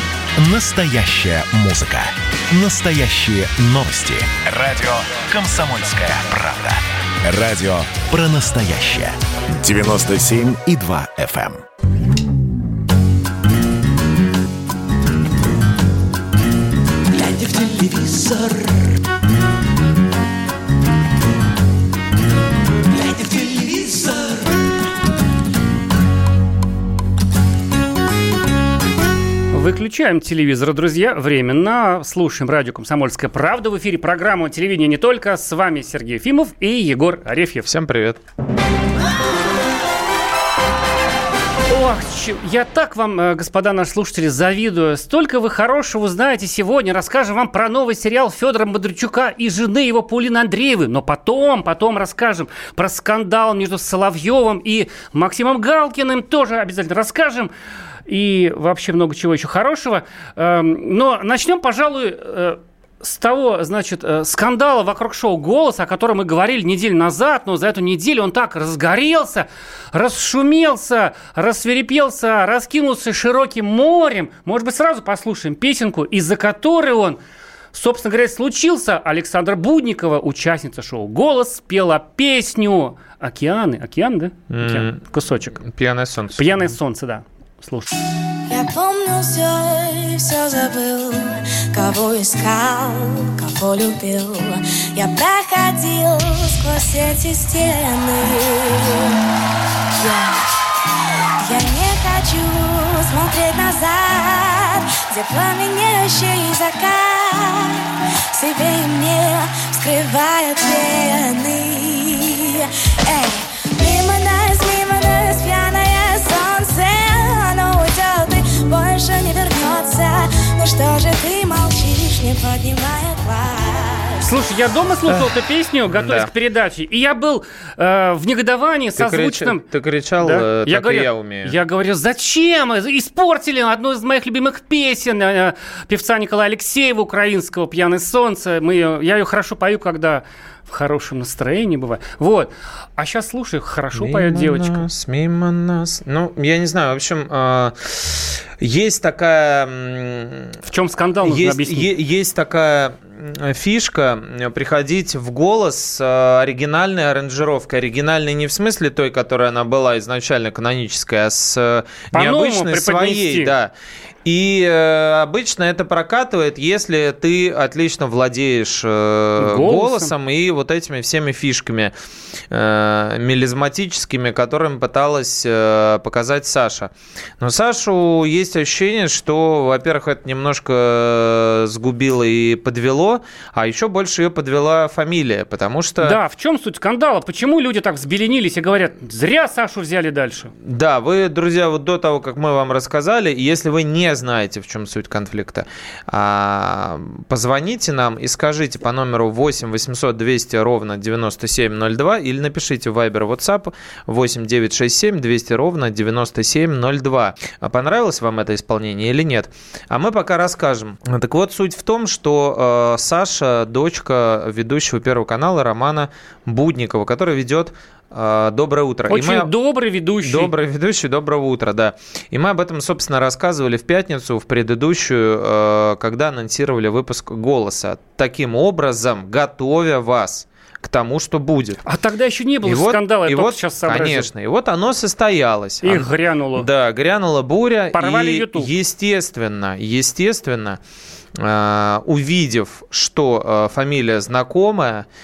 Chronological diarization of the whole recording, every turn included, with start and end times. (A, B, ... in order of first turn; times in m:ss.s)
0:00.4-0:11.6 A
0:17.1-0:18.9 B
0:23.0-0:24.3 B
0:29.5-0:37.7 C
0:37.6-0:38.2 D
0:41.7-0:57.5 C
0:58.1-1:17.2 C
1:17.7-1:25.6 C
1:24.5-1:25.0 D
1:25.6-1:26.7 D
1:26.3-1:27.9 C
1:28.5-1:39.2 E
1:40.0-1:40.4 E
1:41.4-2:04.2 E
2:04.2-2:09.6 C
2:05.9-2:06.3 D
2:09.0-2:11.5 D
2:10.2-2:24.8 C
2:23.9-2:30.6 D
2:30.6-2:31.9 C
2:31.2-2:43.7 D
2:42.1-2:43.5 C
2:44.2-2:51.9 D
2:49.4-2:50.1 C
2:52.5-3:06.2 D
3:06.0-3:10.5 C
3:10.6-3:39.5 D
3:39.1-3:40.5 C
3:40.2-3:51.8 D
3:51.8-3:54.3 C
3:52.6-4:00.8 D
3:55.8-3:56.7 C
3:57.9-3:58.7 C
4:01.4-4:05.0 D